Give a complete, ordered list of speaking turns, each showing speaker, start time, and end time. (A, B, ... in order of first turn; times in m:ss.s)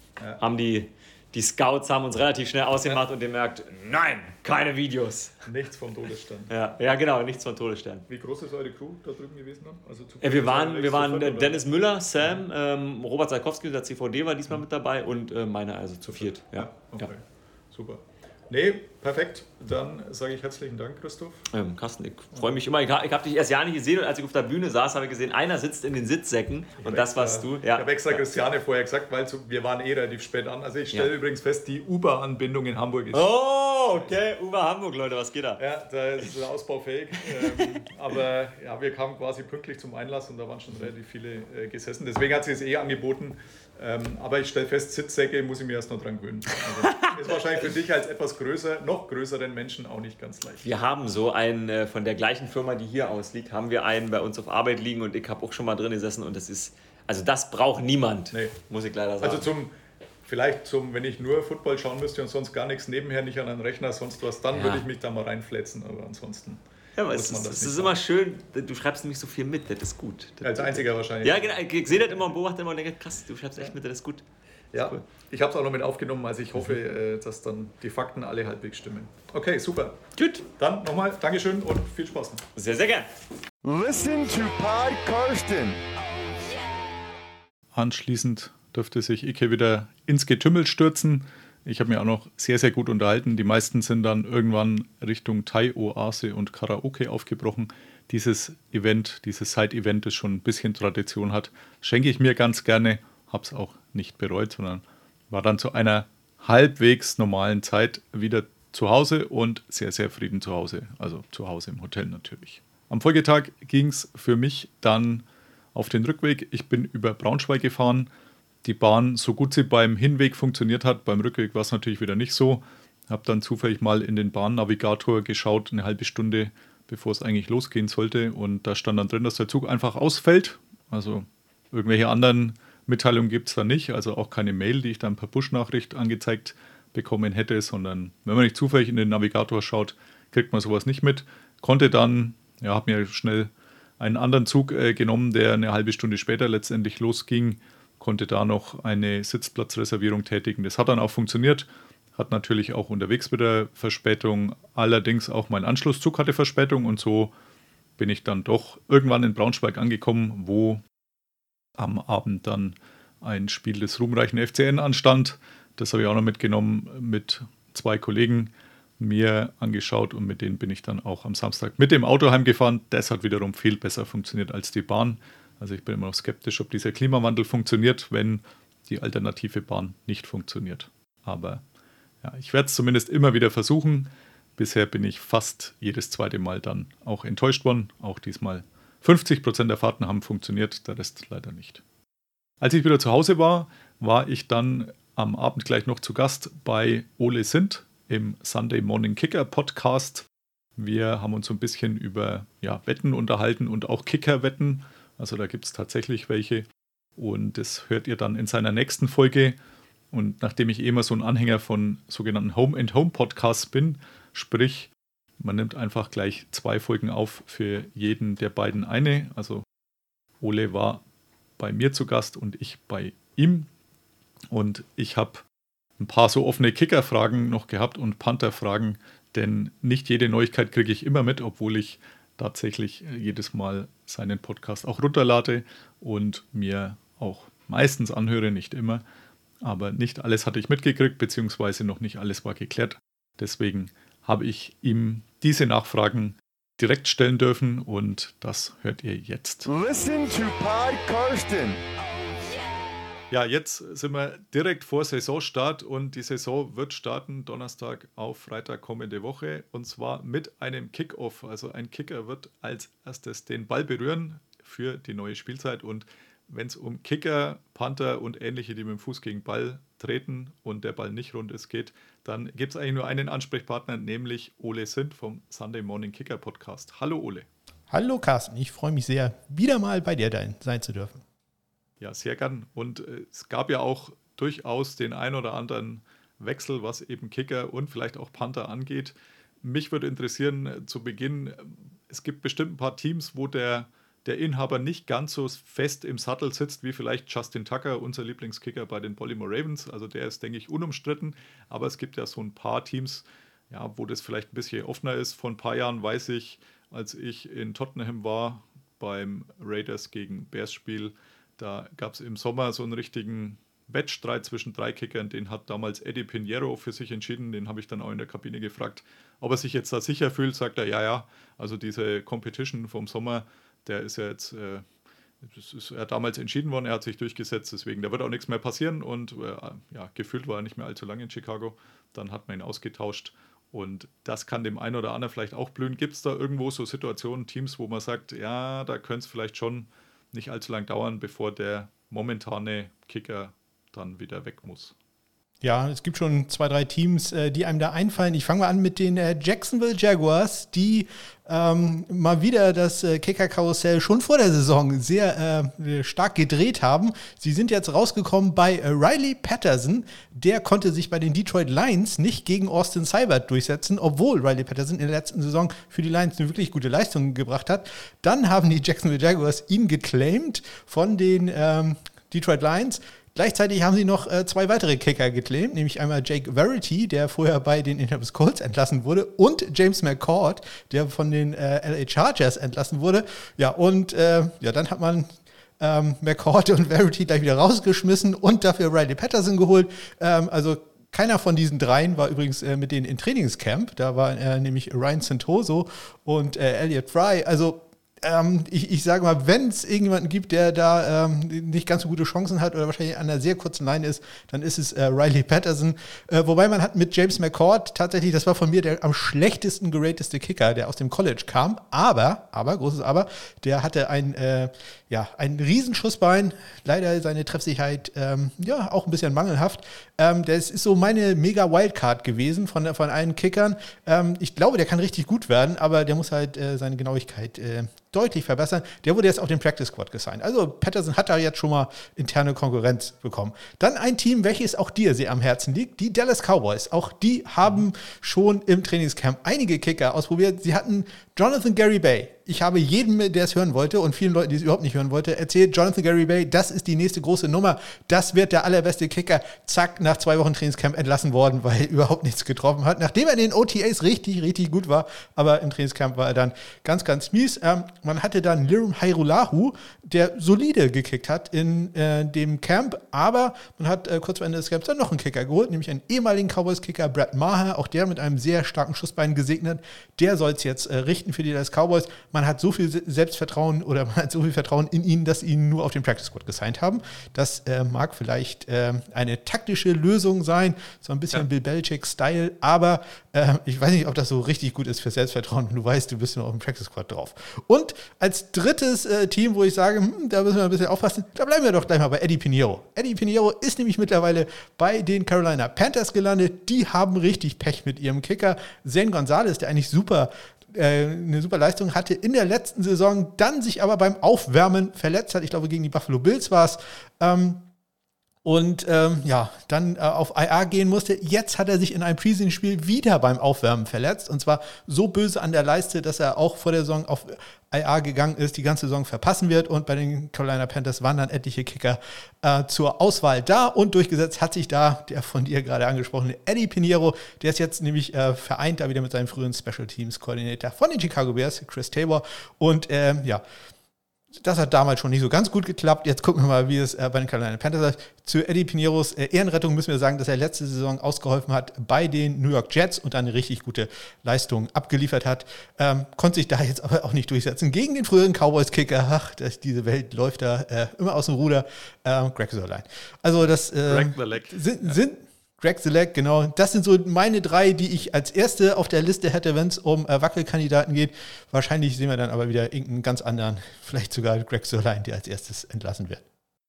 0:00.4-0:05.3 A
0:05.4-0:06.5 B
0:06.5-0:08.0 A
0:08.1-0:11.6 B
0:10.2-0:17.1 A
0:16.1-0:21.5 B
0:21.5-0:28.3 A
0:26.8-0:33.3 B
0:33.1-0:35.6 A
0:35.6-0:50.6 B
0:37.2-0:37.8 A
0:46.8-0:47.1 A
0:50.6-0:59.5 A
0:58.3-0:58.6 B
0:59.2-0:59.7 B
1:00.2-1:07.9 B
1:04.5-1:04.8 A
1:07.0-1:14.2 A
1:10.4-1:12.3 B
1:14.7-1:20.0 B
1:14.7-1:15.0 A
1:20.2-1:20.4 A
1:20.6-1:22.4 B
1:22.6-1:23.1 A
1:23.6-1:25.8 C
1:27.7-1:58.1 B
1:58.6-2:37.3 B
2:38.0-2:40.8 B
2:41.8-3:01.6 B
3:02.2-3:11.8 B
3:12.6-3:20.2 B
3:20.8-3:26.6 B
3:27.2-3:29.6 B
3:30.1-3:39.6 B
3:40.4-3:41.0 B
3:41.6-3:43.7 B
3:44.5-3:45.4 B
3:46.0-3:59.0 B
3:59.6-4:09.7 B
4:09.6-4:11.8 C
4:13.3-4:37.5 B
4:37.9-4:41.2 D
4:42.0-5:24.8 B
5:25.4-5:44.9 B
5:45.6-6:25.3 D
6:25.8-8:27.6 D
8:28.4-8:53.4 D
8:54.4-9:26.2 D
9:13.8-9:15.0 B